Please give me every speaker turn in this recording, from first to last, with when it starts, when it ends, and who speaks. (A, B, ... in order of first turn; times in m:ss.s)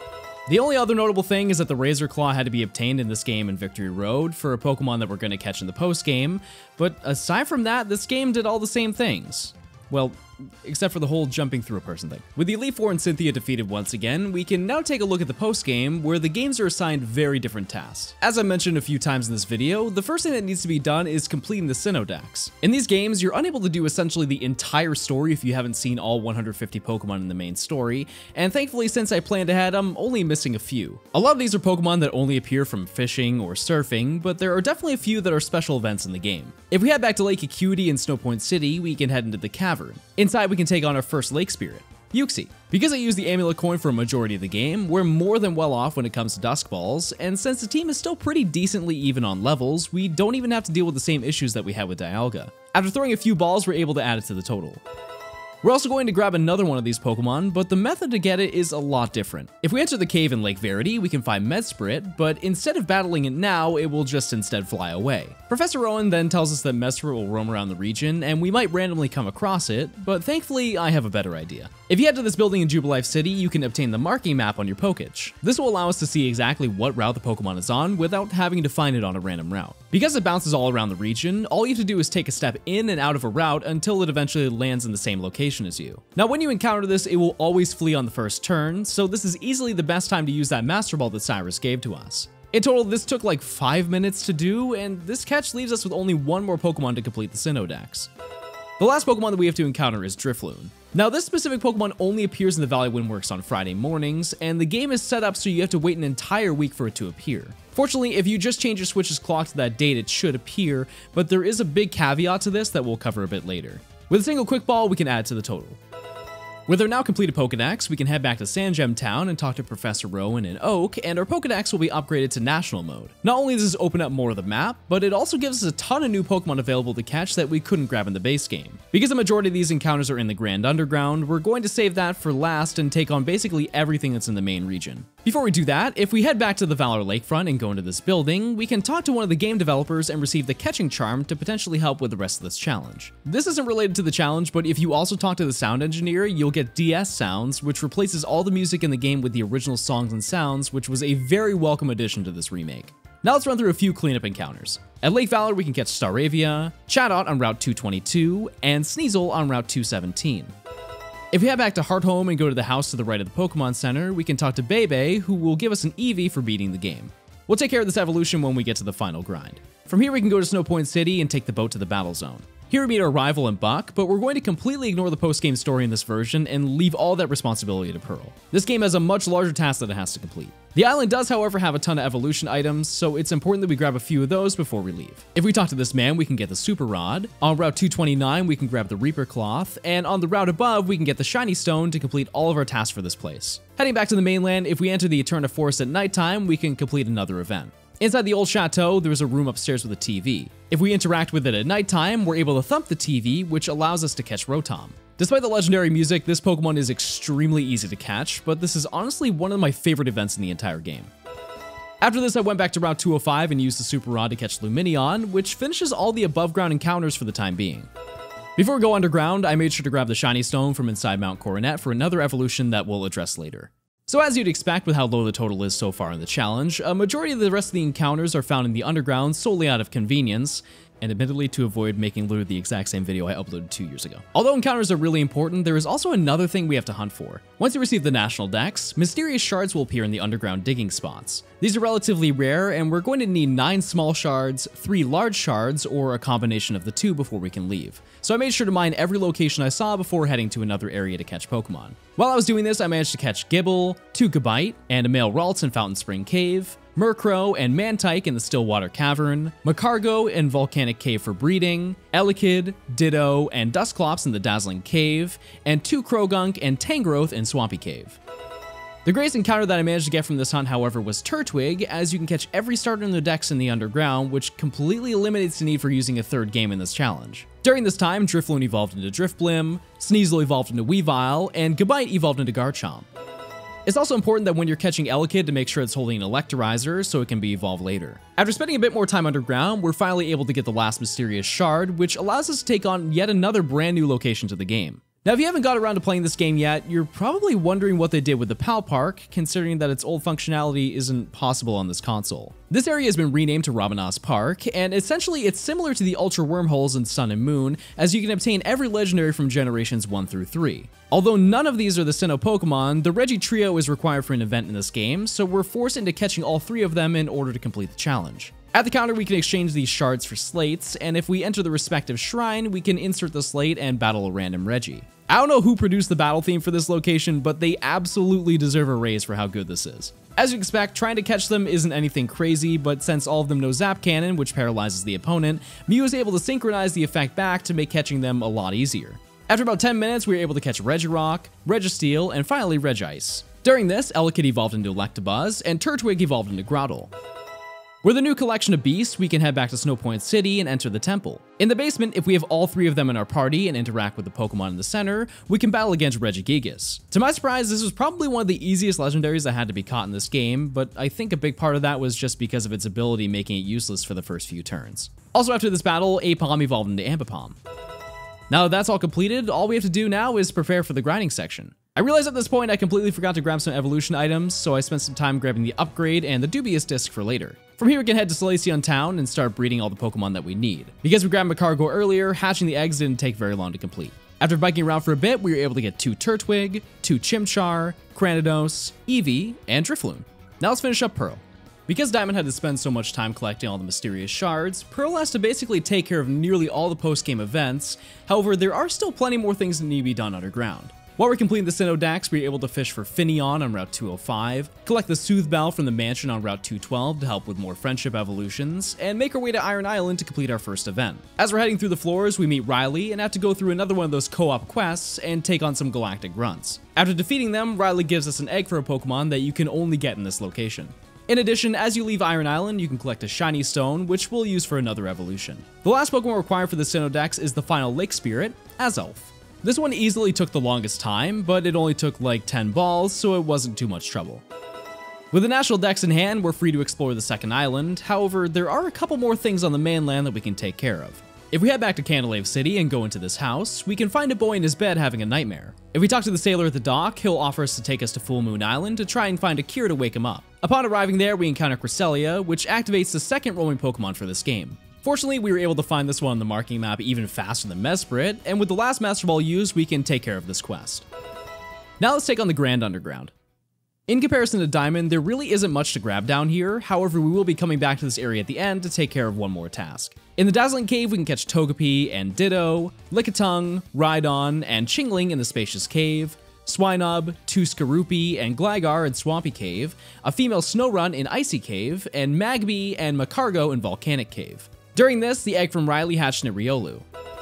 0:00.5-0:54.8 A
0:55.6-1:38.1 A
1:38.8-1:55.8 A
1:56.7-2:40.5 A
2:41.3-3:31.1 A
3:32.0-3:37.9 A
3:38.6-4:28.2 A
4:29.0-4:43.1 A
4:43.8-5:47.1 A
5:48.0-6:07.6 A
6:08.5-7:14.4 A
7:15.3-7:41.0 A
7:42.0-7:43.3 A
7:44.1-8:07.0 A